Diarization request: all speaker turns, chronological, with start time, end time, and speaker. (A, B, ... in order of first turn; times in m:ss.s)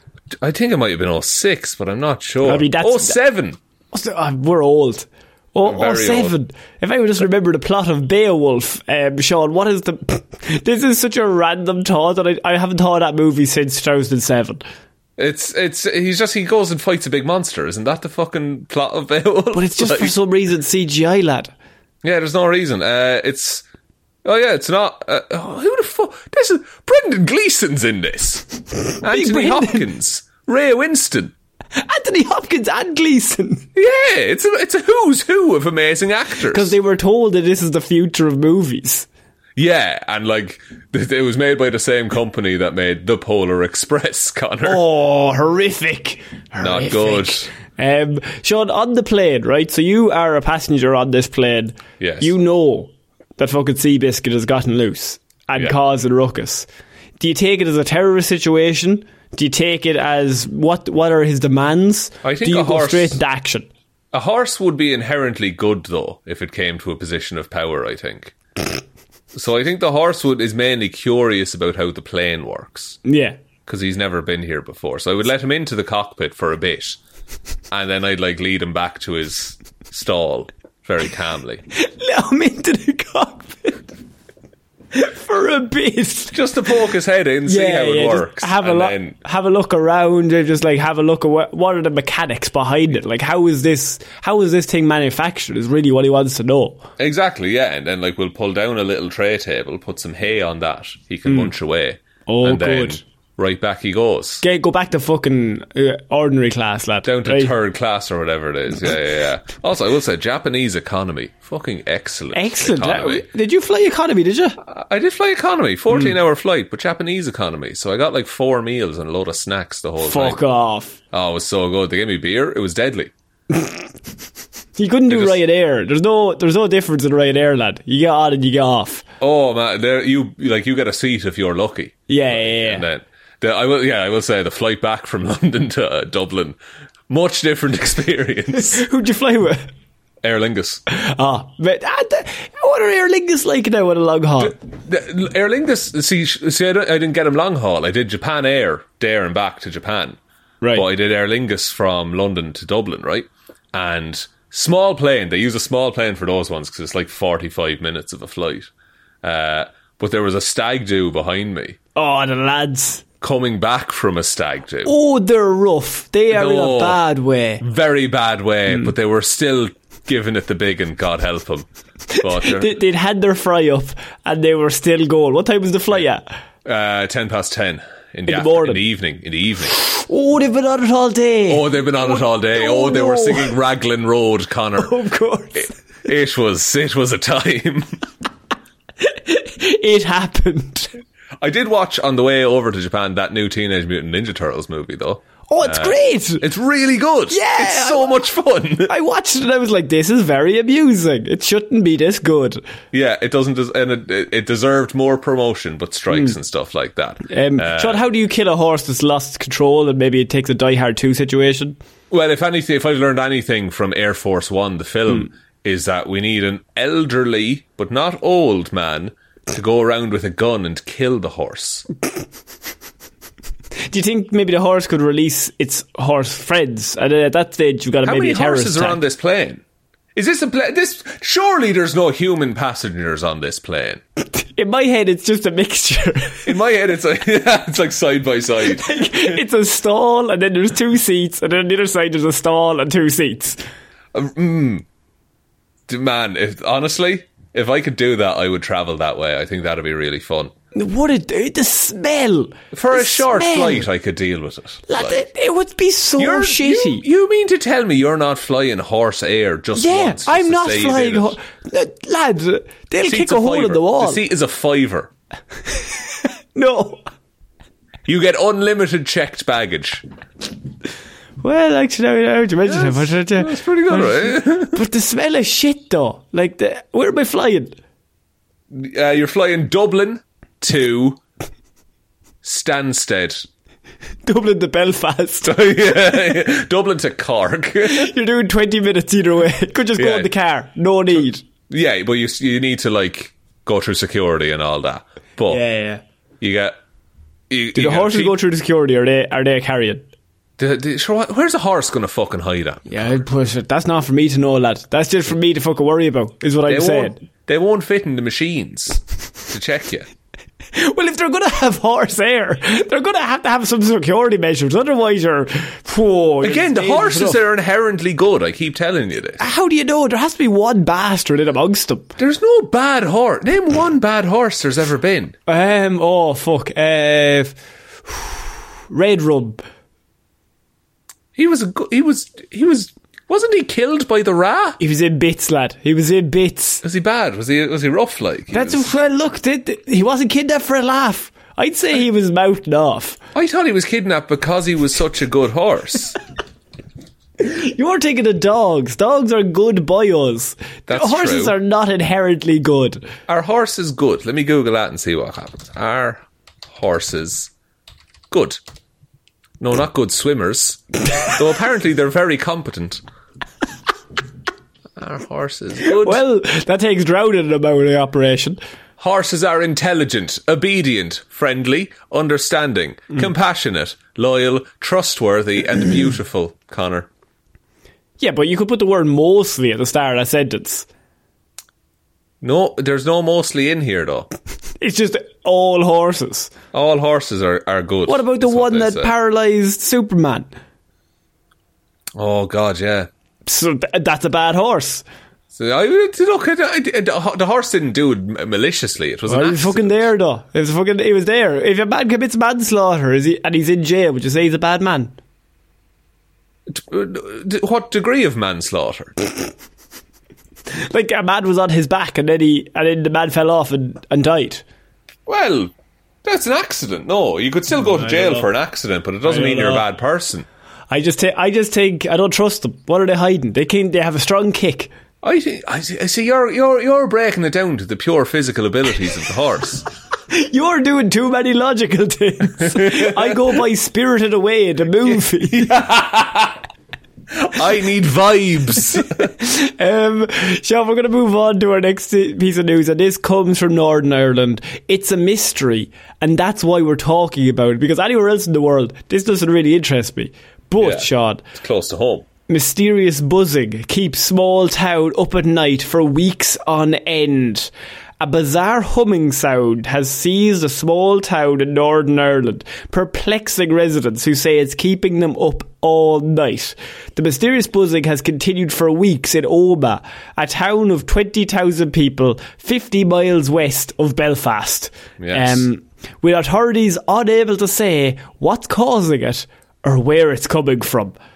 0:00.3-0:03.6 A
0:02.4-0:03.2 B
0:03.9-0:14.6 B
0:05.6-0:06.4 A
0:15.2-0:20.2 A
0:19.5-0:21.5 B
0:22.0-0:23.6 A
0:24.2-0:31.3 A
0:29.0-0:29.9 B
0:31.8-0:33.7 B
0:33.8-0:36.8 A
0:36.5-0:39.1 B
0:39.6-0:44.8 A
0:44.6-0:56.7 B
0:46.6-0:47.5 A
0:52.0-0:52.3 A
0:57.2-1:03.7 B
1:02.2-1:03.2 A
1:04.1-1:08.3 A
1:09.3-1:13.0 A
1:13.0-1:13.4 B
1:13.6-1:17.0 A
1:17.7-1:21.6 A
1:21.8-1:23.8 B
1:24.9-1:26.4 B
1:26.3-1:29.2 A
1:27.4-1:36.8 B
1:37.0-1:44.4 A
1:41.3-1:41.5 B
1:42.3-1:43.0 B
1:44.4-1:47.5 B
1:47.0-1:53.2 A
1:52.3-1:54.6 B
1:54.6-2:00.4 A
2:00.0-2:01.0 B
2:01.1-2:03.1 A
2:03.5-2:03.8 B
2:04.8-2:09.0 B
2:05.1-2:05.4 A
2:09.2-2:16.6 A
2:12.1-2:12.9 B
2:17.1-2:18.8 A
2:18.5-2:19.6 B
2:20.2-2:20.8 A
2:20.9-2:24.6 B
2:24.4-2:30.2 A
2:30.6-2:30.9 B
2:30.7-2:38.7 A
2:39.2-2:41.8 A
2:41.9-2:43.0 B
2:43.2-2:44.9 A
2:44.8-2:47.6 B
2:46.3-2:47.0 A
2:47.6-2:51.7 A
2:52.2-2:56.2 B
2:52.2-2:52.8 A
2:56.6-2:59.8 A
2:58.3-2:58.8 B
2:59.8-3:03.6 B
3:01.5-3:05.0 A
3:04.8-3:05.7 B
3:05.6-3:07.9 A
3:09.0-3:10.9 B
3:11.4-3:18.9 A
3:15.5-3:16.4 B
3:17.3-3:18.2 B
3:18.9-3:22.6 B
3:22.9-3:28.0 A
3:27.3-3:31.8 B
3:32.1-3:41.9 A
3:43.9-3:49.0 B
3:48.0-3:49.6 A
3:50.1-3:54.0 A
3:54.3-3:56.5 B
3:56.4-3:59.4 A
3:58.6-4:03.6 B
4:04.1-4:04.9 A
4:05.9-4:10.5 A
4:10.7-4:13.9 B
4:12.7-4:15.2 A
4:14.9-4:17.0 B
4:16.2-4:21.4 A
4:19.8-4:24.2 B
4:23.0-4:25.1 A
4:25.8-4:27.0 B
4:28.0-4:30.0 A
4:31.4-4:37.8 B
4:32.6-4:34.8 A
4:38.7-4:41.2 A
4:42.4-4:43.5 A
4:44.3-4:45.6 B
4:45.4-4:48.1 A
4:47.9-4:51.4 B
4:50.0-4:50.3 A
4:51.7-4:55.6 A
4:55.5-4:56.0 B
4:56.4-4:56.8 A
4:57.5-4:58.4 A
4:57.8-5:00.1 B
5:00.6-5:03.2 A
5:02.9-5:07.2 B
5:06.7-5:10.1 A
5:10.7-5:17.4 B
5:16.4-5:19.4 A
5:19.4-5:22.1 B
5:22.2-5:25.4 A
5:25.5-5:27.6 B
5:28.1-5:29.6 B
5:31.4-5:34.8 A
5:34.8-5:36.8 B
5:36.8-5:38.9 A
5:38.5-5:43.2 B
5:43.3-5:46.2 A
5:47.4-5:53.1 B
5:50.9-5:51.6 A
5:53.3-5:57.5 A
5:58.3-5:58.6 A
5:59.6-6:03.0 A
6:05.0-6:06.2 A
6:05.8-6:08.6 B
6:09.0-6:17.1 A
6:18.2-6:20.9 B
6:22.4-6:24.3 A
6:24.8-6:26.5 B
6:26.7-6:29.1 A
6:28.1-6:30.5 B
6:32.1-6:33.1 A
6:33.5-6:35.0 B
6:35.5-6:40.1 A
6:39.3-6:45.1 B
6:46.7-6:49.1 A
6:50.9-6:54.6 B
6:55.3-6:55.7 A
6:56.2-7:00.5 A
6:57.8-6:58.5 B
6:59.2-6:59.9 B
7:00.9-7:04.9 B
7:05.2-7:09.8 A
7:10.3-7:15.8 B
7:12.6-7:13.6 A
7:15.4-7:16.6 A
7:17.4-7:19.3 A
7:19.3-7:31.4 B
7:30.8-7:32.3 A
7:32.5-8:01.2 B
7:55.2-7:55.7 A